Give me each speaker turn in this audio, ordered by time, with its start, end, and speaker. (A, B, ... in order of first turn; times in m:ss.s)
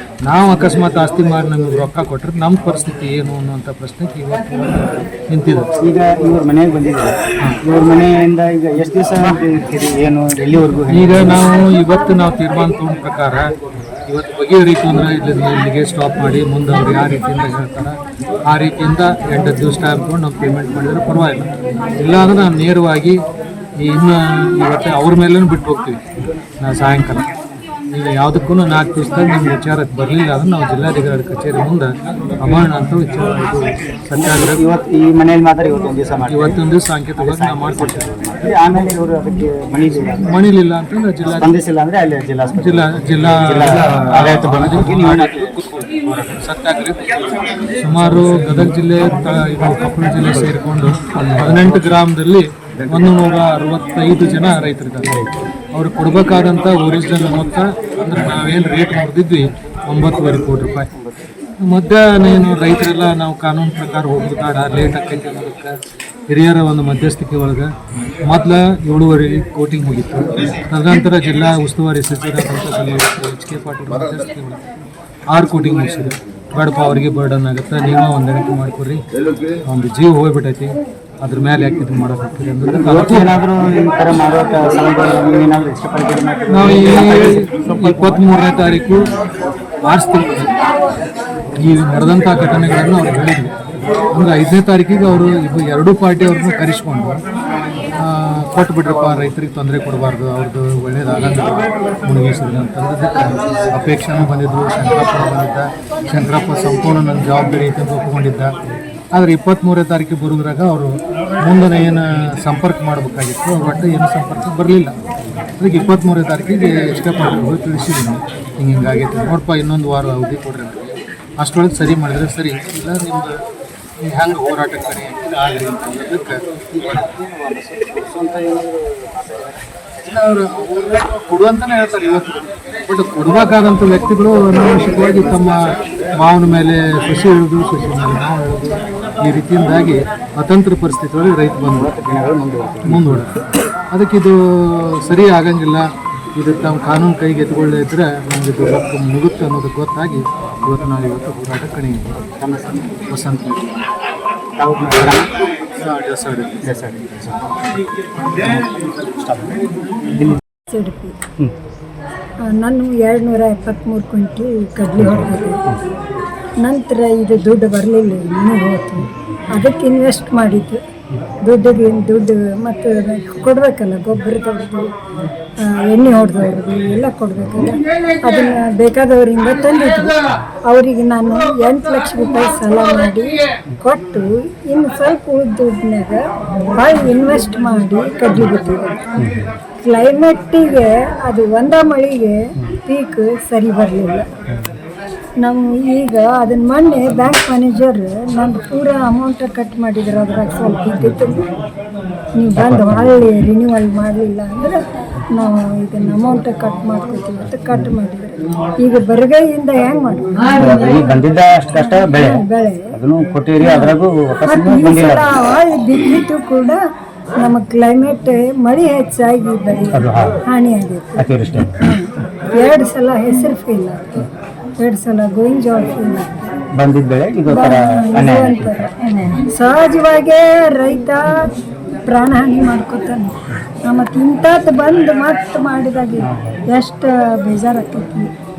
0:00.2-0:05.7 A
0:05.8-0:11.5 B
0:10.9-0:13.5 A
0:14.1-0:18.0 A
0:18.5-0:23.2 A
0:23.8-0:26.0 A
0:26.6-0:27.3 A
0:27.9-0:34.6 A
0:34.2-0:36.6 B
0:36.3-0:38.6 A
0:37.2-0:40.3 B
0:40.2-0:41.5 A
0:41.3-0:45.6 B
0:42.5-1:00.9 A
0:48.0-0:48.7 B
0:51.1-0:52.0 B
0:52.8-0:53.2 B
0:55.0-0:55.3 B
1:01.6-1:05.7 A
1:06.3-1:07.7 A
1:08.3-1:14.6 A
1:15.3-1:19.0 A
1:19.7-1:23.4 A
1:22.6-1:28.3 B
1:26.5-1:29.0 A
1:29.8-1:30.5 A
1:31.6-1:33.5 A
1:34.1-1:37.2 A
1:38.0-1:48.5 A
1:49.1-1:50.9 A
1:51.4-1:54.9 A
1:55.6-2:03.3 A
2:04.0-2:06.4 A
2:06.7-2:09.8 B
2:10.0-2:15.6 A
2:16.2-2:21.9 A
2:21.7-2:23.3 B
2:22.9-2:23.4 A
2:23.9-2:32.3 A
2:32.4-2:32.8 B
2:33.1-2:33.8 A
2:34.6-2:35.3 B
2:35.8-2:36.7 A
2:36.6-2:37.4 B
2:38.4-2:39.6 B
2:40.1-2:40.4 B
2:40.7-2:41.2 C
2:42.5-2:45.6 C
2:46.6-2:50.8 C
2:51.4-2:54.9 C
2:55.6-3:00.2 C
3:00.7-3:06.2 C
3:06.8-3:09.0 C
3:09.2-3:09.5 B
3:09.8-3:14.3 C
3:15.4-3:21.4 C
3:22.4-3:24.8 C
3:22.6-3:23.3 B
3:25.3-3:30.5 C
3:30.6-3:35.3 B
3:31.7-3:32.9 C
3:33.6-3:34.0 C
3:34.5-3:36.8 C
3:37.4-3:41.3 C
3:39.9-3:40.4 B
3:41.2-3:41.8 B
3:41.8-3:44.3 C
3:44.8-3:46.5 C
3:46.8-3:48.9 B
3:47.5-3:51.5 C
3:52.1-3:53.3 C
3:53.9-3:58.3 C
3:56.2-3:56.6 B